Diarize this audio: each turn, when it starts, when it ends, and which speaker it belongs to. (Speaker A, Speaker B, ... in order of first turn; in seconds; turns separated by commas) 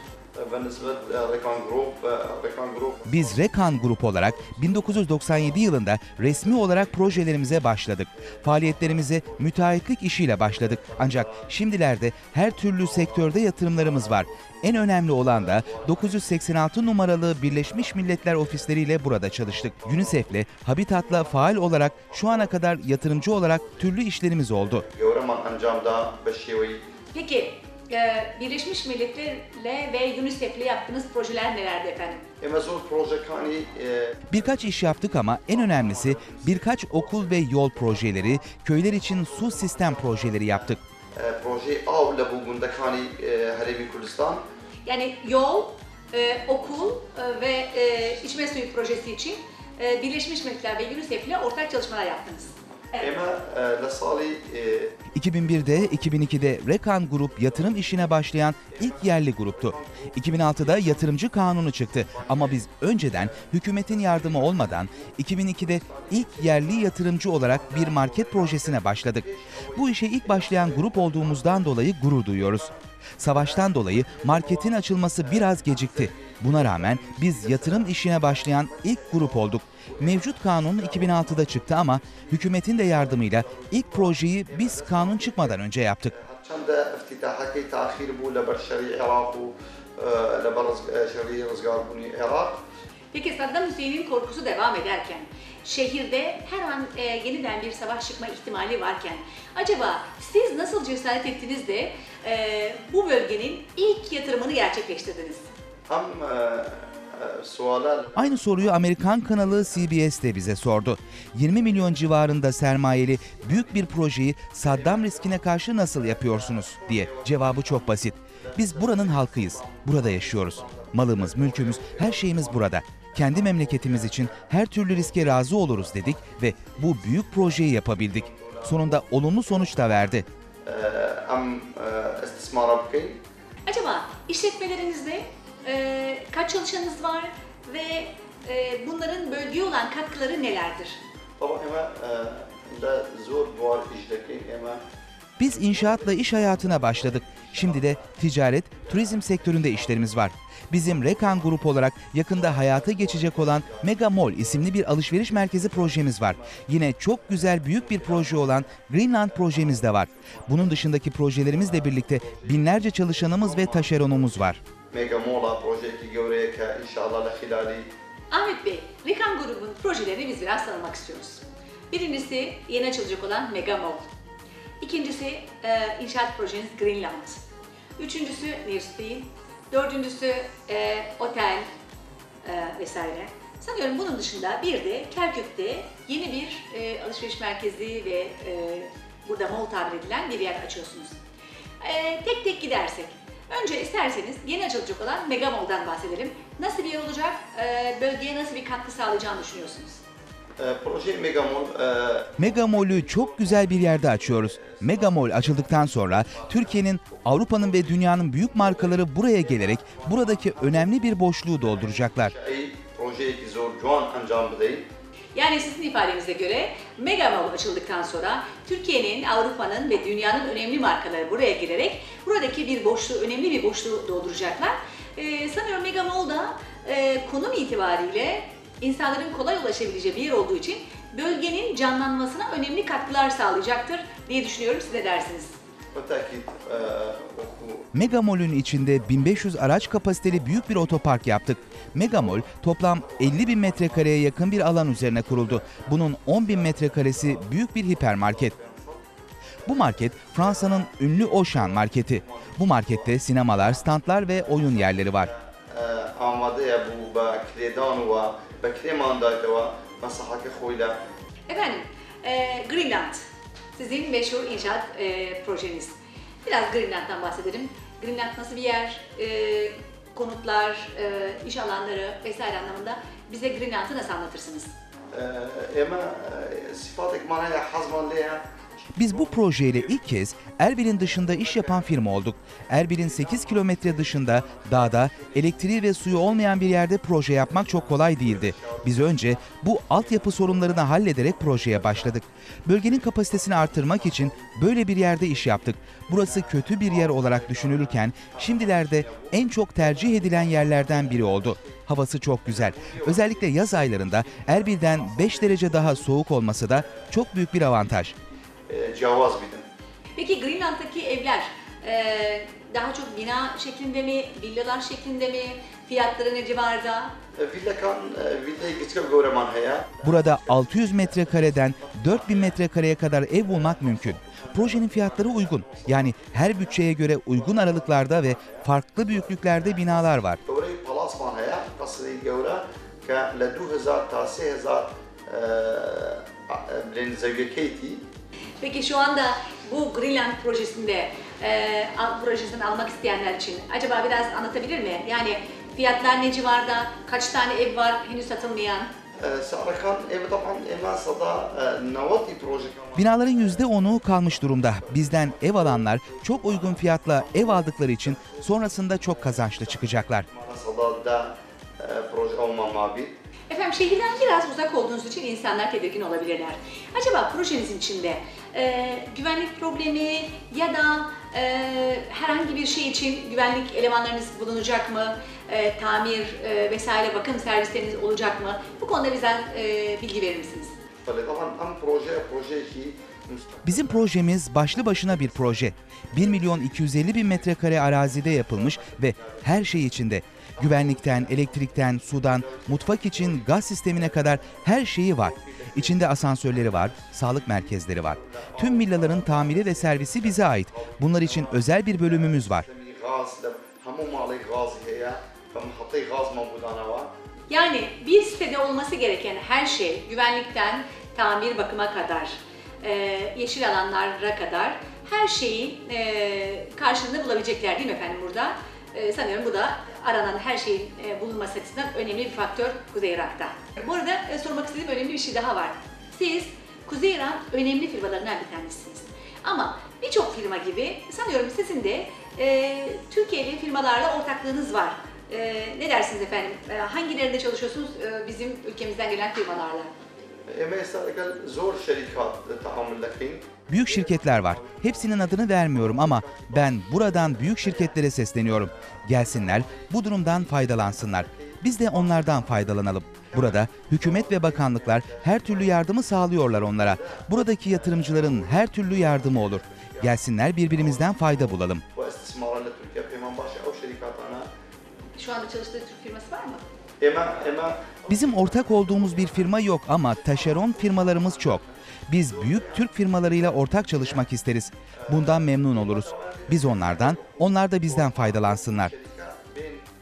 Speaker A: 0.3-5.4, Speaker B: 3.1-24.9, Speaker A: 6.6-7.0, Speaker A: 8.2-9.8, Speaker A: 10.4-11.6, Speaker A: 12.6-16.3, Speaker A: 17.5-20.3, Speaker A: 21.1-23.9, Speaker A: 24.7-26.8, Speaker C: 27.1-32.2, Speaker A: 32.4-38.5, Speaker B: 34.3-40.8, Speaker A: 39.0-44.4, Speaker C: 44.9-53.1, Speaker A: 53.0-55.0, Speaker B: 55.1-86.1, Speaker A: 55.7-56.3, Speaker A: 57.3-61.3, Speaker A: 61.8-71.8, Speaker A: 72.4-72.8, Speaker A: 73.3-92.6, Speaker C: 93.1-105.5, Speaker A: 105.9-109.8, Speaker B: 108.2-130.3, Speaker A: 113.3-113.9, Speaker A: 114.6-130.1, Speaker A: 130.7-133.2, Speaker C: 133.7-141.0, Speaker A: 141.4-144.8, Speaker B: 145.4-164.6, Speaker A: 145.5-150.3, Speaker A: 150.8-151.7, Speaker A: 152.3-156.7, Speaker A: 157.2-167.9, Speaker C: 168.3-174.1, Speaker C: 174.8-177.4, Speaker C: 178.0-181.7, Speaker C: 182.4-191.2, Speaker C: 191.8-200.0, Speaker A: 200.6-214.9, Speaker B: 202.4-212.3, Speaker C: 215.3-235.5, Speaker A: 235.9-237.9, Speaker B: 237.9-248.6, Speaker A: 239.4-249.1, Speaker A: 249.7-261.0, Speaker B: 249.7-255.3, Speaker C: 261.5-263.2, Speaker C: 263.8-274.7, Speaker A: 275.1-278.5, Speaker B: 279.0-308.1, Speaker A: 279.0-279.9, Speaker A: 281.0-282.1, Speaker A: 282.7-292.2, Speaker A: 292.8-301.9, Speaker A: 302.4-308.0, Speaker A: 308.7-309.7, Speaker C: 310.2-317.1, Speaker A: 317.4-322.7, Speaker B: 320.0-330.4, Speaker A: 323.3-338.1, Speaker C: 338.6-348.9, Speaker A: 349.2-363.1, Speaker B: 353.0-360.3, Speaker C: 363.5-380.7, Speaker A: 381.1-389.9, Speaker B: 383.6-402.7, Speaker A: 390.6-407.1, Speaker C: 407.5-439.9, Speaker A: 440.5-464.5, Speaker B: 443.7-461.8, Speaker C: 465.1-466.6, Speaker A: 467.0-474.3, Speaker B: 468.1-478.9, Speaker A: 475.0-479.9